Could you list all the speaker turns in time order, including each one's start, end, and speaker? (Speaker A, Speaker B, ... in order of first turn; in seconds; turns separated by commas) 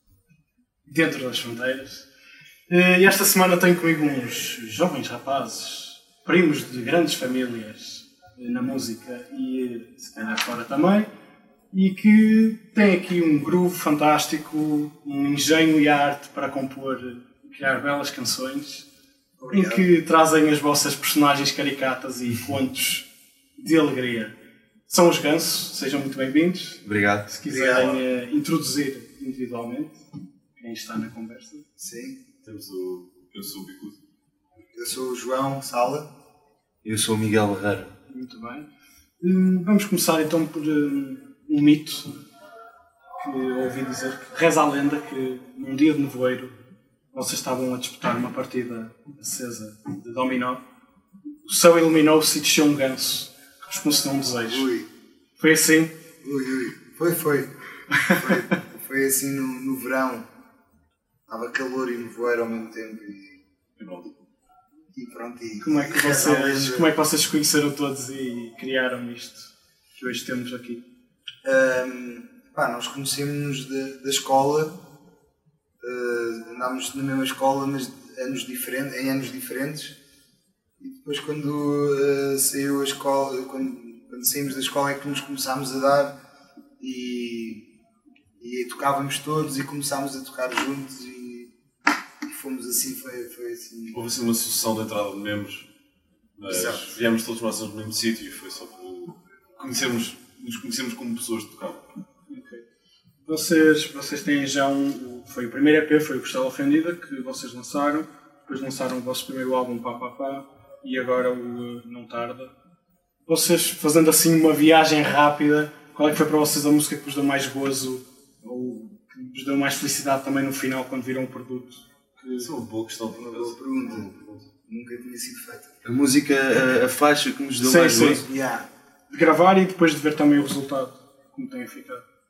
Speaker A: 0.8-2.1, Speaker A: 2.7-11.1, Speaker A: 11.7-18.9, Speaker B: 19.4-19.9, Speaker A: 19.5-24.3, Speaker A: 24.9-30.0, Speaker C: 26.8-27.3, Speaker B: 27.5-27.9, Speaker D: 27.7-28.0, Speaker A: 30.6-31.6, Speaker B: 31.8-32.2, Speaker D: 32.4-34.0, Speaker B: 34.7-36.1, Speaker C: 36.8-37.9, Speaker A: 38.1-38.7, Speaker A: 39.2-42.1, Speaker A: 43.2-46.5, Speaker A: 47.1-50.6, Speaker A: 51.5-54.7, Speaker B: 54.4-54.9, Speaker A: 55.4-55.9, Speaker B: 56.2-57.5, Speaker B: 58.1-60.3, Speaker B: 61.3-63.4, Speaker D: 63.8-64.1, Speaker B: 64.9-66.9, Speaker A: 65.6-70.8, Speaker B: 71.4-74.8, Speaker B: 75.8-80.0, Speaker B: 80.8-86.2, Speaker B: 86.8-87.7, Speaker B: 88.4-91.5, Speaker B: 92.3-94.0, Speaker D: 93.9-95.7, Speaker D: 96.4-101.8, Speaker B: 96.5-97.0, Speaker A: 102.3-102.6, Speaker A: 103.2-112.5, Speaker A: 113.2-122.5, Speaker D: 122.4-124.4, Speaker B: 123.1-124.1, Speaker B: 124.7-125.8, Speaker C: 125.8-128.2, Speaker A: 127.6-128.2, Speaker B: 128.2-128.7, Speaker A: 129.1-132.0